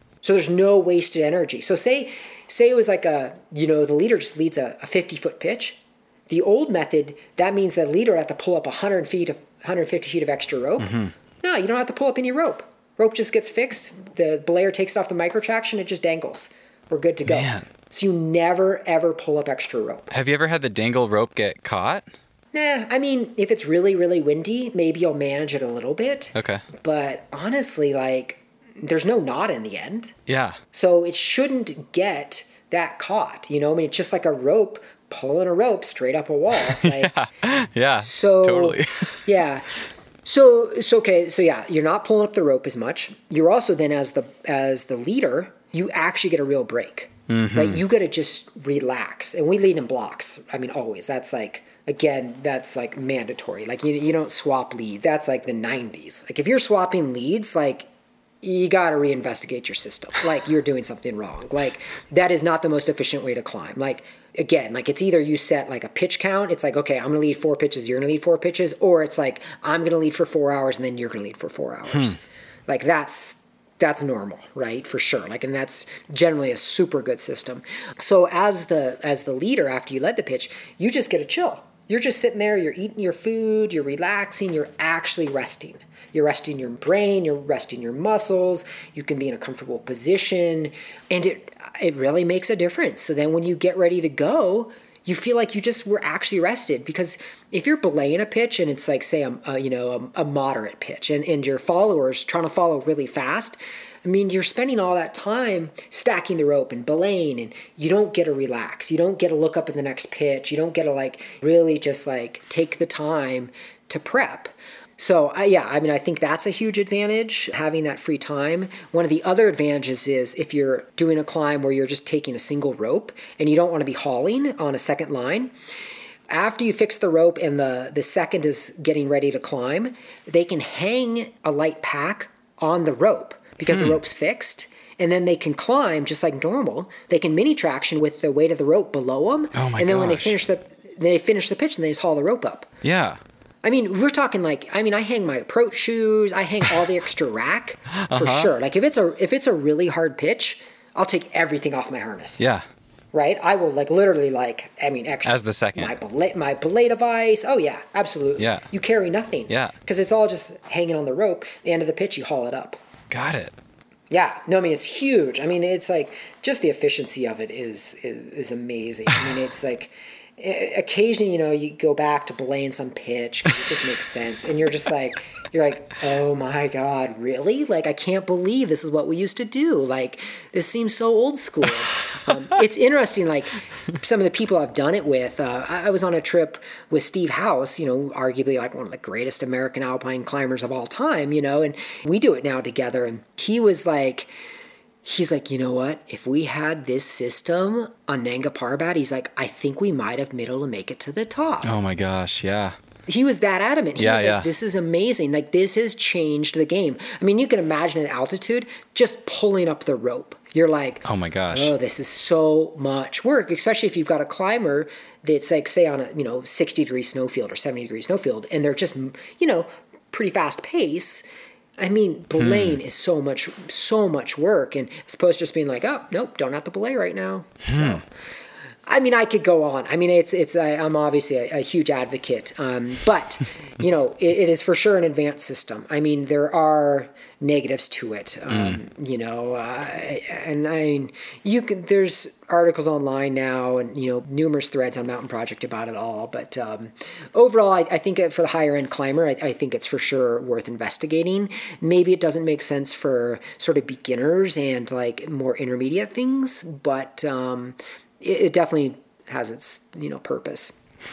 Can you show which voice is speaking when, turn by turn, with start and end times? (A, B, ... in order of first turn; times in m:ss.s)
0:00.2-0:20.1 A
0:10.8-0:11.1 B
0:17.3-0:17.7 B
0:20.1-0:22.0 B
0:22.5-0:30.1 A
0:26.3-0:26.6 B
0:30.3-0:30.6 B
0:30.7-0:37.1 A
0:36.7-0:39.2 B
0:37.9-0:39.7 A
0:40.2-0:57.9 A
0:47.3-0:47.8 B
0:58.4-2:05.5 A
2:06.3-2:22.7 A
2:13.7-2:14.0 B
2:19.5-2:20.4 B
2:22.8-2:23.2 B
2:23.6-2:32.4 A
2:27.9-2:28.5 B
2:32.4-2:32.6 B
2:33.1-2:42.8 A
2:35.2-2:35.9 B
2:38.4-2:38.6 B
2:39.5-2:39.7 B
2:43.1-2:43.5 B
2:44.1-3:14.3 A
3:15.0-3:21.7 A
3:21.6-3:22.7 B
3:23.1-3:41.2 A
3:24.0-3:24.5 B
3:31.0-3:31.7 B
3:41.8-3:48.0 A
3:42.4-3:42.8 B
3:47.7-3:48.0 B
3:48.8-4:20.7 A
3:58.5-3:58.8 B